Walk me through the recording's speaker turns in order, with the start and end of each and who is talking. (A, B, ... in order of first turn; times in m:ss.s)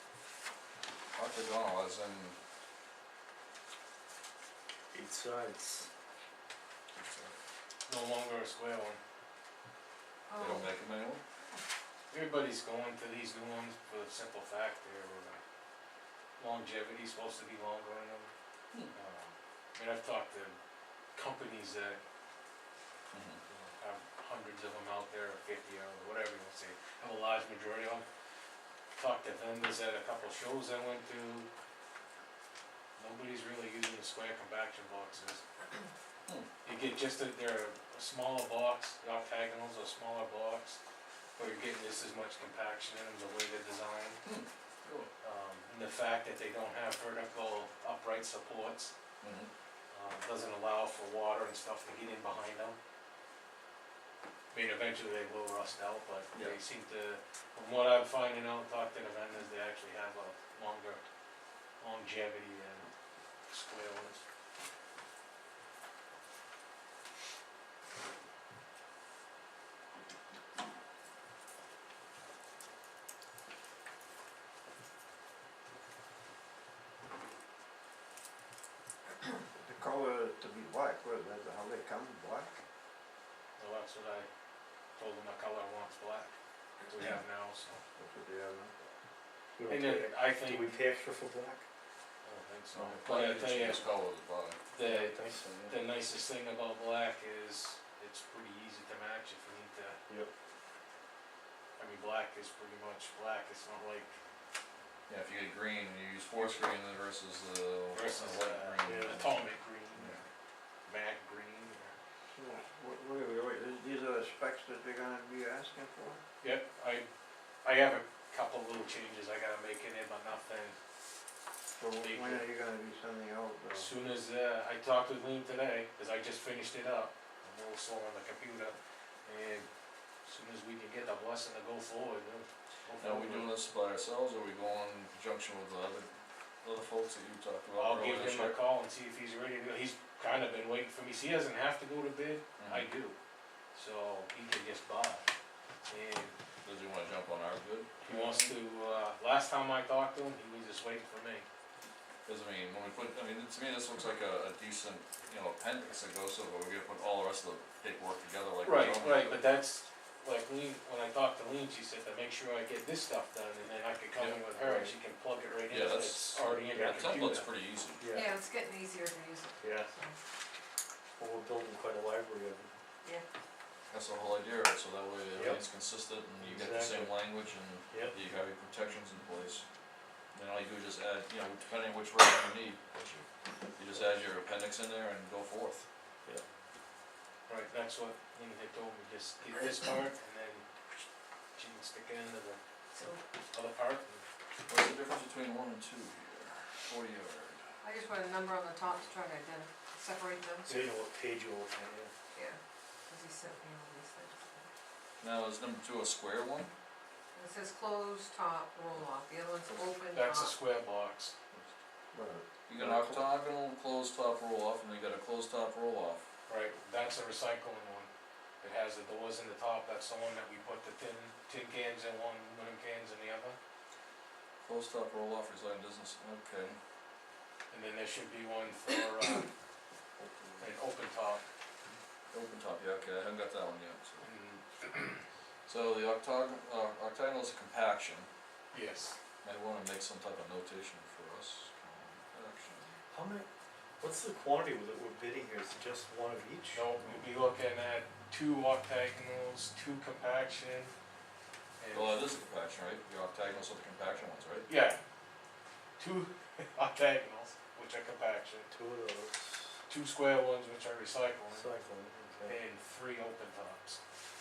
0:01.2-0:02.4 A
0:04.9-0:05.9 B
0:06.9-0:07.3 A
0:07.9-0:09.0 C
0:10.3-0:10.8 D
0:10.4-0:11.2 A
0:11.4-0:11.6 D
0:12.1-0:15.4 C
0:16.4-0:18.3 C
0:18.9-0:20.6 C
0:21.2-0:22.0 C
0:23.1-0:23.4 A
0:23.5-0:28.0 C
0:29.0-0:31.5 C
0:33.0-0:35.4 C
0:36.6-0:40.8 C
0:41.4-0:44.2 C
0:44.2-0:45.1 A
0:45.2-0:48.9 C
0:49.2-0:49.5 A
0:49.9-0:52.8 C
0:54.5-1:01.0 C
0:56.3-0:56.6 A
1:01.8-1:02.9 C
1:03.5-1:04.2 C
1:19.6-1:22.6 E
1:23.6-1:24.3 C
1:25.0-1:26.3 C
1:26.9-1:27.8 C
1:28.0-1:28.7 E
1:29.6-1:31.7 B
1:29.7-1:30.7 C
1:32.2-1:33.9 C
1:32.8-1:34.6 A
1:34.7-1:40.0 C
1:34.8-1:35.8 B
1:41.8-1:44.1 C
1:45.1-1:50.2 A
1:46.4-1:46.7 C
1:47.9-1:50.2 C
1:48.8-1:49.2 B
1:50.9-1:52.0 C
1:52.3-1:56.2 E
1:56.4-1:57.1 C
1:57.6-2:00.8 C
2:01.8-2:03.9 E
2:02.0-2:02.5 C
2:03.7-2:09.7 C
2:10.2-2:13.5 C
2:13.0-2:16.1 A
2:16.6-2:18.6 A
2:17.8-2:23.2 C
2:22.6-2:22.9 A
2:23.7-2:25.2 C
2:25.9-2:26.4 C
2:26.6-2:28.0 A
2:28.0-2:28.6 B
2:28.0-2:31.5 C
2:32.3-2:39.4 A
2:38.6-2:47.5 C
2:44.6-2:45.0 B
2:45.7-2:48.0 A
2:46.7-2:47.0 B
2:48.0-2:48.3 B
2:48.1-2:50.2 D
2:49.6-2:49.9 B
2:51.2-2:52.7 B
2:53.9-2:59.6 A
2:55.4-2:55.6 B
2:56.4-2:57.2 B
2:57.9-2:58.2 B
3:00.3-3:05.8 A
3:07.5-3:10.6 C
3:11.6-3:12.6 C
3:12.9-3:13.2 D
3:13.5-3:14.2 C
3:14.7-3:17.7 A
3:17.8-3:20.9 D
3:20.7-3:22.1 B
3:22.3-3:24.7 D
3:25.2-3:26.7 A
3:27.4-3:30.6 D
3:30.1-3:31.3 C
3:32.1-3:33.2 E
3:32.7-3:36.2 A
3:36.5-3:38.1 C
3:38.6-3:43.6 C
3:44.6-3:46.8 A
3:47.7-3:49.5 C
3:50.6-3:51.4 C
3:52.3-3:54.3 A
3:54.2-3:55.2 C
3:55.7-3:58.3 A
3:58.7-3:59.2 C
3:59.4-4:03.0 A
4:03.1-4:03.5 B
4:04.0-4:06.9 B
4:06.7-4:10.9 C
4:11.8-4:12.3 C
4:11.9-4:14.7 A
4:14.7-4:15.0 C
4:16.0-4:18.7 C
4:18.7-4:19.8 B
4:19.9-4:21.7 C
4:21.5-4:22.6 B
4:22.4-4:24.0 C